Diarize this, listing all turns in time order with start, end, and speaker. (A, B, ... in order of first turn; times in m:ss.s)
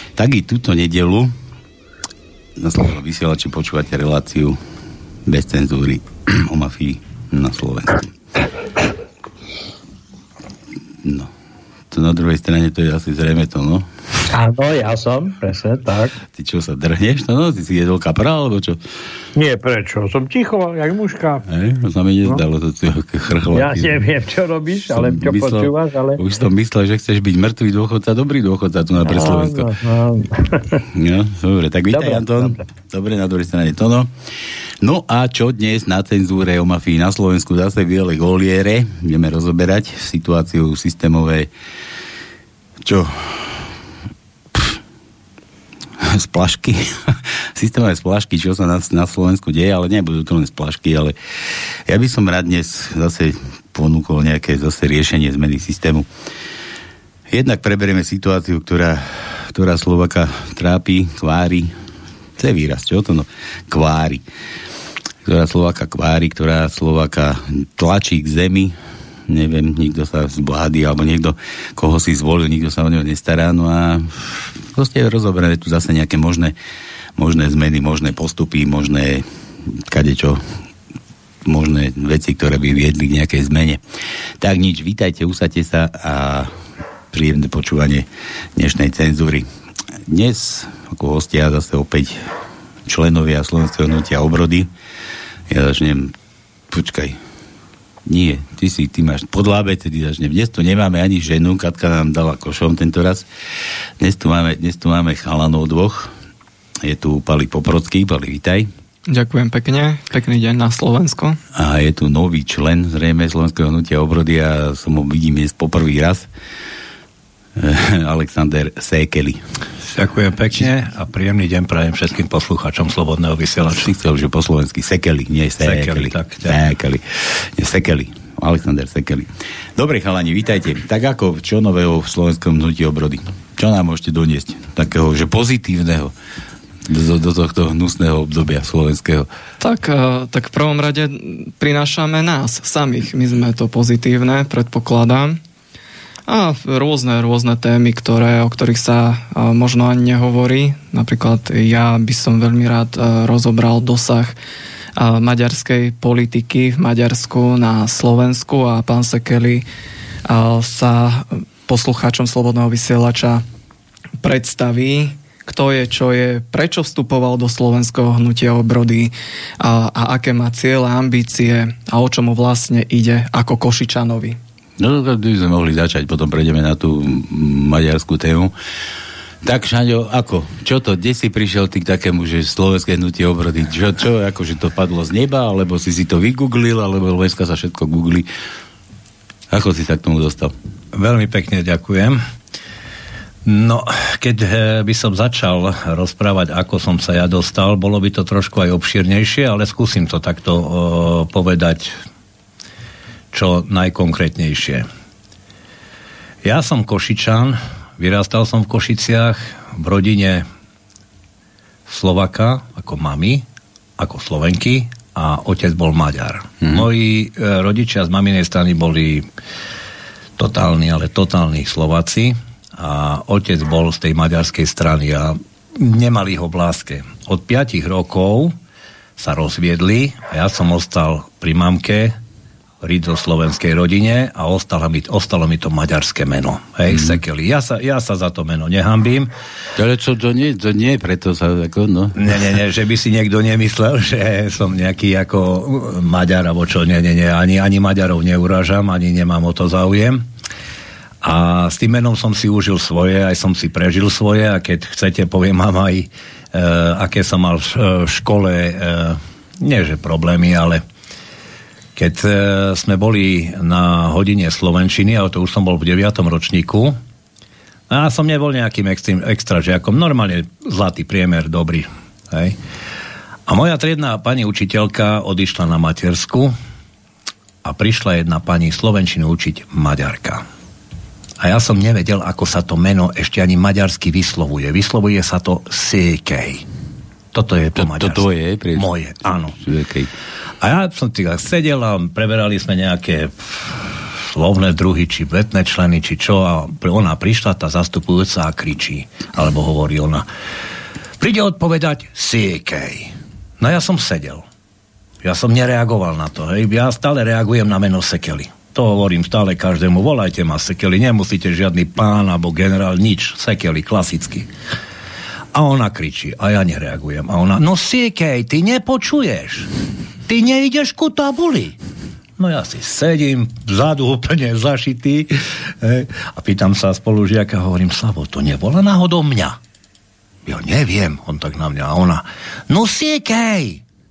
0:00.2-0:01.3 A
0:02.6-0:04.6 A
0:05.2-0:08.1 A
0:11.0-0:11.3 A
0:11.9-0:13.9 A
0:14.3-0:16.2 B
0:16.3-0:18.8 A
0:19.4-0:21.4 B
0:21.5-0:24.0 A
0:23.5-0:26.2 B
0:24.9-0:29.7 A
0:29.1-0:30.8 B
0:30.9-0:34.1 A
0:31.9-0:32.6 B
0:34.8-0:41.5 A
0:42.8-0:43.7 A
0:46.0-0:51.1 A
0:51.9-0:56.1 A
0:57.3-1:01.7 A
1:02.4-1:04.2 A
1:05.2-1:08.7 A
1:09.3-1:16.5 A
1:17.2-1:20.4 A
1:21.4-1:23.8 A
1:24.4-1:26.5 A
1:27.1-1:28.0 A
1:28.6-1:29.4 A
1:30.1-1:32.2 A
1:32.8-1:34.7 A
1:35.5-1:36.1 A
1:36.7-1:37.2 A
1:38.0-1:43.2 A
1:44.0-1:46.1 A
1:46.8-1:48.7 A
1:49.1-1:51.4 C
1:51.5-1:56.3 A
1:57.6-1:59.4 A
1:59.8-2:03.9 D
2:03.8-2:16.1 A
2:05.6-2:06.6 D
2:16.8-2:19.3 A
2:19.6-2:25.4 C
2:26.3-2:34.4 C
2:35.0-2:39.6 C
2:40.2-2:43.4 C
2:44.2-2:54.4 C
2:54.8-2:58.5 A
2:59.4-3:08.3 A
3:09.5-3:10.5 A
3:10.9-3:12.2 D
3:13.4-3:21.9 D
3:23.3-3:24.8 D
3:26.4-3:30.4 D
3:31.9-3:33.4 D
3:34.0-3:39.3 D
3:40.4-3:48.5 D
3:49.2-3:52.2 D
3:52.8-3:59.3 D
3:59.8-4:02.2 A
4:02.1-4:10.2 D
4:11.2-4:20.8 D
4:22.0-4:27.0 D
4:27.9-4:32.6 D
4:33.5-4:36.5 D
4:37.6-4:40.4 D
4:41.4-4:46.6 D
4:47.3-4:49.6 D
4:47.8-4:48.9 A
4:49.6-4:50.1 A
4:50.6-5:00.2 D
5:01.2-5:04.4 D
5:05.2-5:14.5 D
5:15.5-5:19.7 D
5:20.3-5:21.8 D
5:22.4-5:29.6 D
5:30.4-5:33.8 D